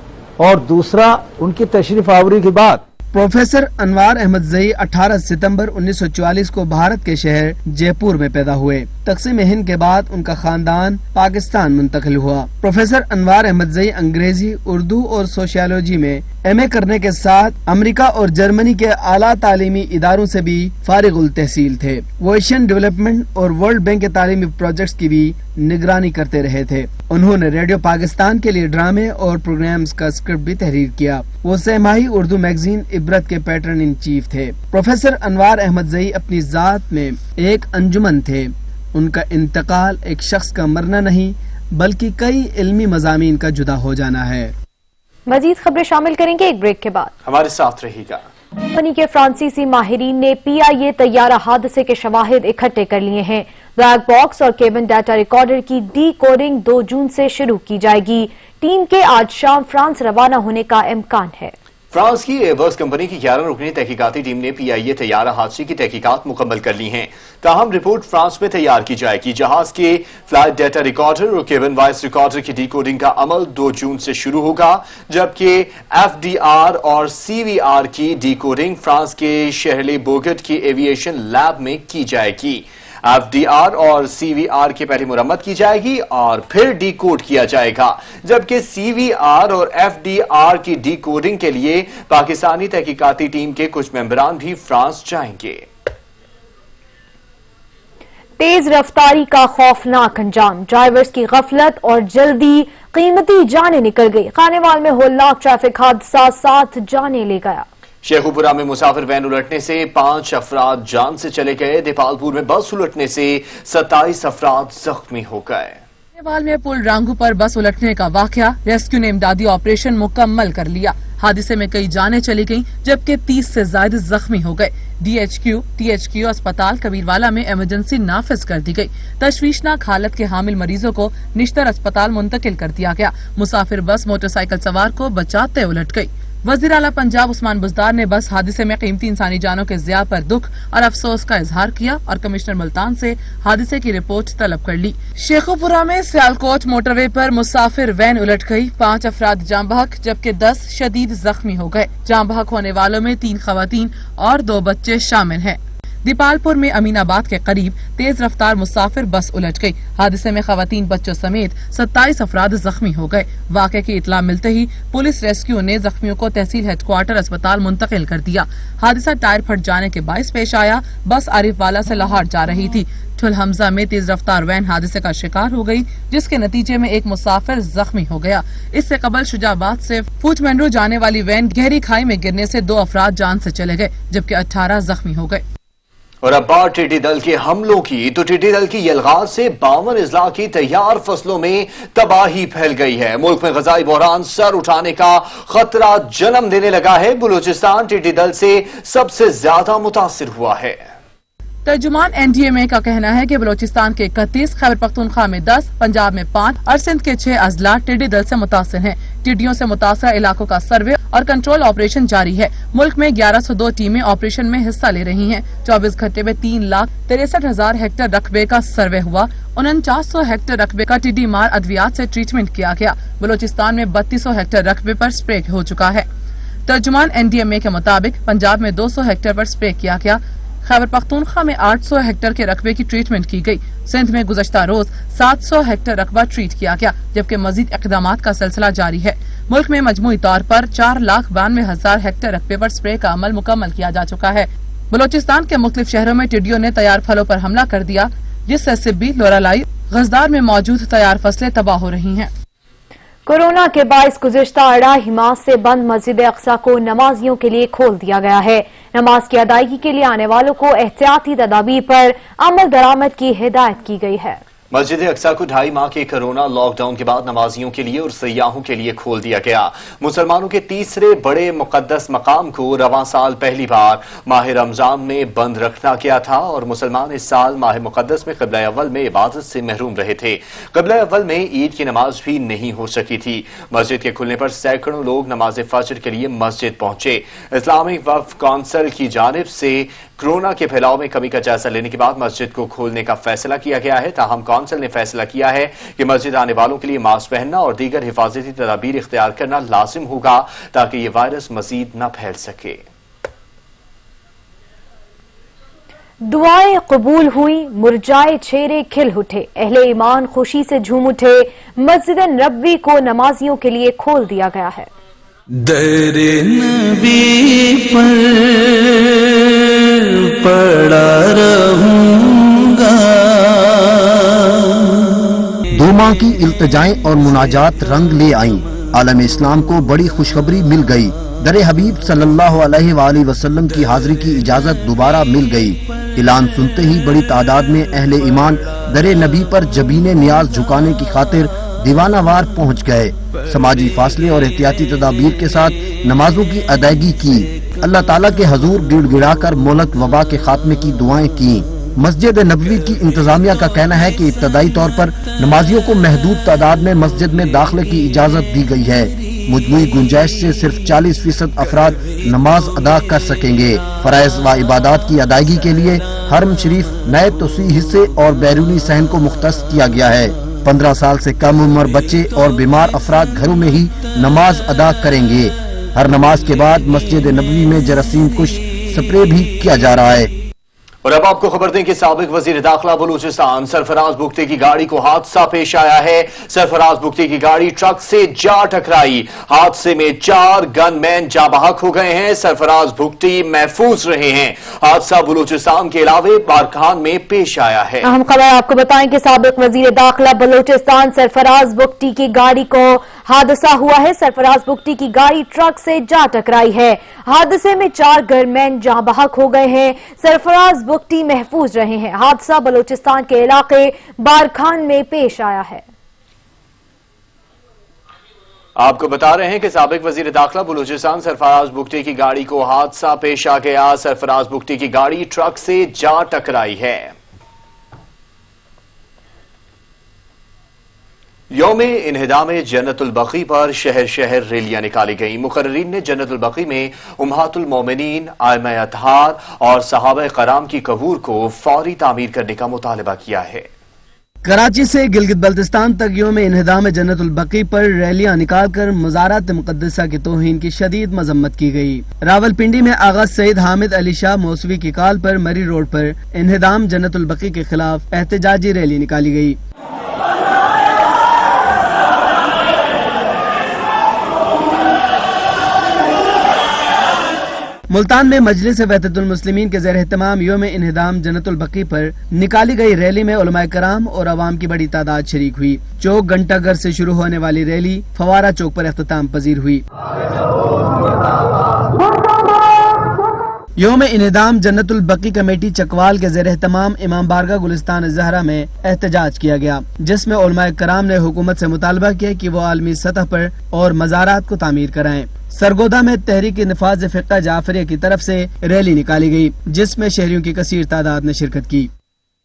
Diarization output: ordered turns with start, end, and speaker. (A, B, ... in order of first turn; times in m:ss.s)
0:00.4-0:02.8 A
0:03.1-0:44.5 B
0:45.3-0:47.1 C
0:47.2-0:48.2 D
0:48.7-1:01.5 C
1:01.9-1:35.6 D
1:38.4-1:47.6 C
1:48.0-1:55.8 D
1:56.2-3:05.4 E
3:06.2-3:20.9 D
3:21.6-3:46.0 E
3:46.6-4:12.3 E
4:13.2-4:24.4 C
4:24.7-5:02.8 D
5:06.2-5:14.9 C
5:15.5-5:25.1 F
5:25.7-6:20.3 G
6:21.0-6:38.0 D
6:38.0-6:55.8 C
6:58.8-7:07.1 D
7:11.5-7:23.7 D
7:24.4-7:39.6 B
7:47.9-7:59.8 B
8:03.8-8:21.9 B